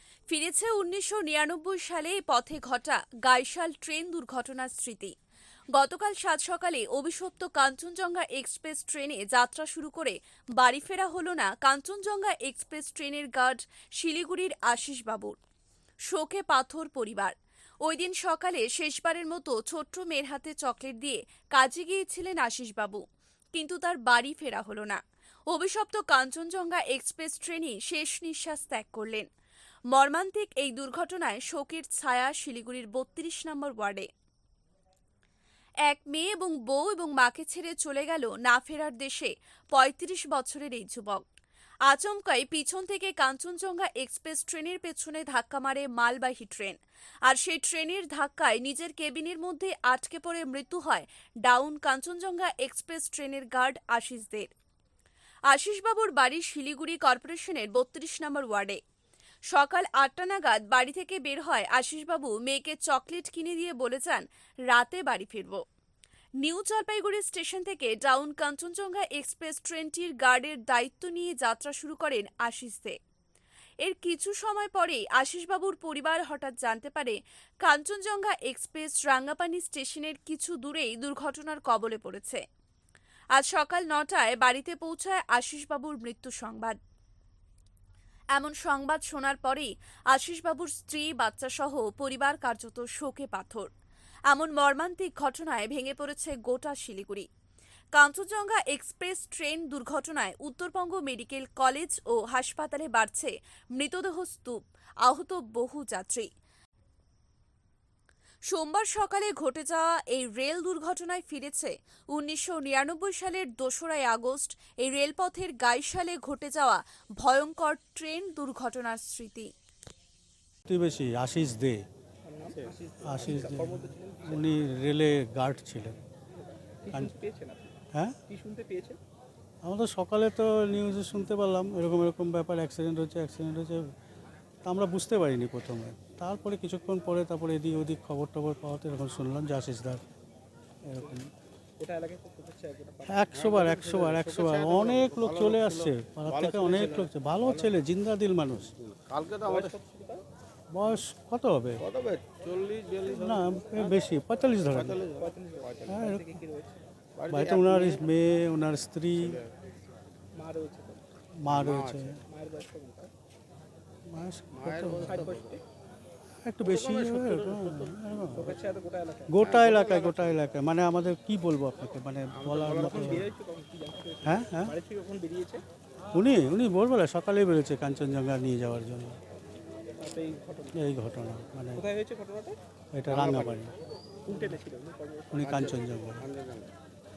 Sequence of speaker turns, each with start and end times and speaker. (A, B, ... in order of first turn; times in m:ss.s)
0:00.3-0:05.1 A
0:05.7-0:15.4 A
0:16.1-0:23.0 A
0:23.5-0:29.3 A
0:29.9-0:34.1 A
0:35.8-0:41.2 A
0:41.8-0:54.5 A
0:55.5-0:58.8 A
0:59.5-1:05.6 A
1:06.4-1:13.0 A
1:13.8-1:22.4 A
1:23.3-1:26.8 A
1:28.3-1:33.7 A
1:34.3-1:37.3 A
1:37.9-1:46.3 A
1:48.4-1:59.5 A
2:00.7-2:01.8 B
2:02.2-2:04.5 C
2:03.0-2:06.0 B
2:03.2-2:03.5 D
2:06.3-2:07.8 C
2:08.3-2:09.0 C
2:09.6-2:13.9 B
2:14.6-2:20.0 B
2:20.8-2:21.3 B
2:21.8-2:23.4 C
2:23.1-2:28.7 B
2:23.3-2:27.7 D
2:28.8-2:29.7 D
2:29.4-2:30.2 C
2:30.7-2:31.8 B
2:31.8-2:33.8 D
2:33.1-2:35.0 B
2:34.7-2:35.3 D
2:35.2-2:36.9 C
2:35.9-2:36.3 B
2:37.2-2:38.1 D
2:37.3-2:39.4 B
2:40.3-2:41.0 C
2:41.4-2:42.2 B
2:41.5-2:42.1 D
2:42.2-2:43.1 C
2:44.1-2:45.3 B
2:44.5-2:45.6 D
2:45.0-2:45.6 C
2:46.4-2:48.5 B
2:46.6-2:48.4 D
2:48.3-2:49.7 C
2:49.3-2:53.3 B
2:49.5-2:50.3 D
2:52.3-2:53.0 D
2:52.6-2:55.6 C
2:54.2-2:54.7 B
2:56.1-2:59.2 B
3:00.0-3:00.8 C
3:00.7-3:01.8 B
3:01.7-3:02.6 C
3:02.9-3:03.7 B
3:03.1-3:03.6 D
3:04.3-3:05.9 C
3:05.3-3:06.2 B
3:06.2-3:06.7 D